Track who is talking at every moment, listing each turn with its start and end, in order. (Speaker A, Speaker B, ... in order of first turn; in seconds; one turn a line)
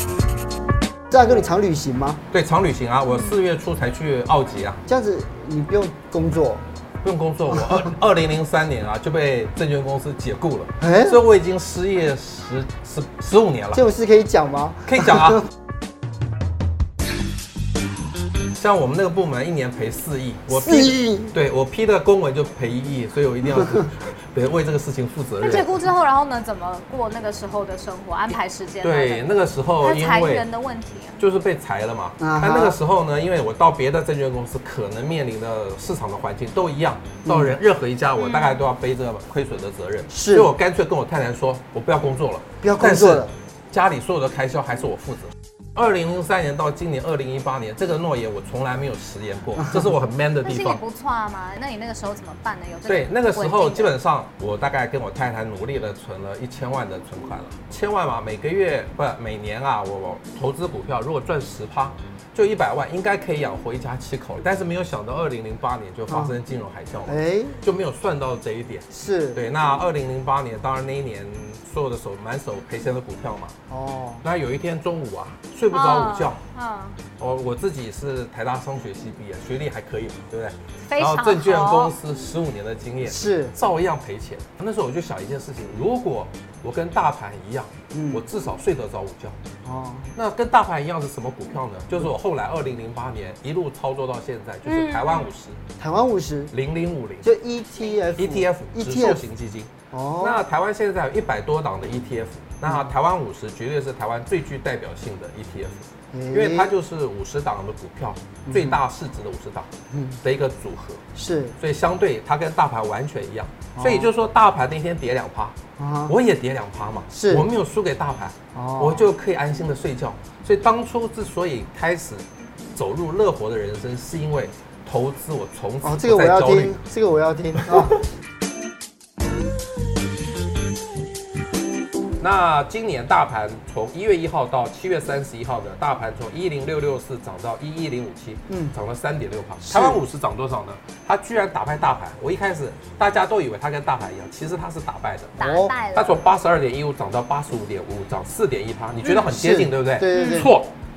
Speaker A: 1.1-2.2
Speaker B: 2.3-4.8
Speaker A: 4.8-6.6
Speaker B: 7.0-13.8
Speaker A: 10.8-11.2
Speaker A: 13.7-15.1
Speaker B: 14.9-15.5
Speaker B: 18.5-25.7
Speaker A: 20.6-21.3
Speaker C: 25.4-31.2
Speaker B: 28.8-30.4
Speaker B: 31.2-50.8
Speaker A: 32.2-32.8
Speaker A: 37.2-37.5
Speaker C: 38.2-38.6
Speaker A: 40.1-40.5
Speaker A: 42.6-43.3
Speaker C: 50.4-53.9
Speaker B: 52.9-73.5
Speaker A: 66.1-66.4
Speaker A: 67.1-67.6
Speaker A: 68.9-69.4
Speaker A: 73.7-74.2
Speaker B: 74.2-76.4
Speaker C: 75.7-77.0
Speaker B: 77.2-89.4
Speaker C: 80.9-81.9
Speaker A: 83.1-83.5
Speaker A: 87.9-88.2
Speaker A: 89.6-90.1
Speaker B: 90.1-95.6
Speaker C: 94.7-95.3
Speaker A: 95.8-96.5
Speaker B: 96.5-97.3
Speaker A: 97.2-99.2
Speaker B: 98.1-109.7
Speaker A: 99.9-100.4
Speaker A: 106.1-106.7
Speaker A: 108.5-108.8
Speaker A: 109.9-110.2
Speaker B: 110.2-111.0
Speaker A: 111.1-111.6
Speaker B: 111.6-115.6
Speaker A: 113.7-114.1
Speaker A: 115.8-116.2
Speaker B: 116.1-126.8
Speaker A: 117.1-117.5
Speaker A: 118.5-119.1
Speaker A: 125.8-128.0
Speaker B: 127.6-128.0
Speaker B: 132.2-145.4
Speaker A: 138.5-138.7
Speaker A: 139.6-140.0
Speaker C: 145.4-146.2
Speaker A: 145.4-145.7
Speaker B: 145.9-150.7
Speaker A: 149.1-150.6
Speaker C: 150.1-150.5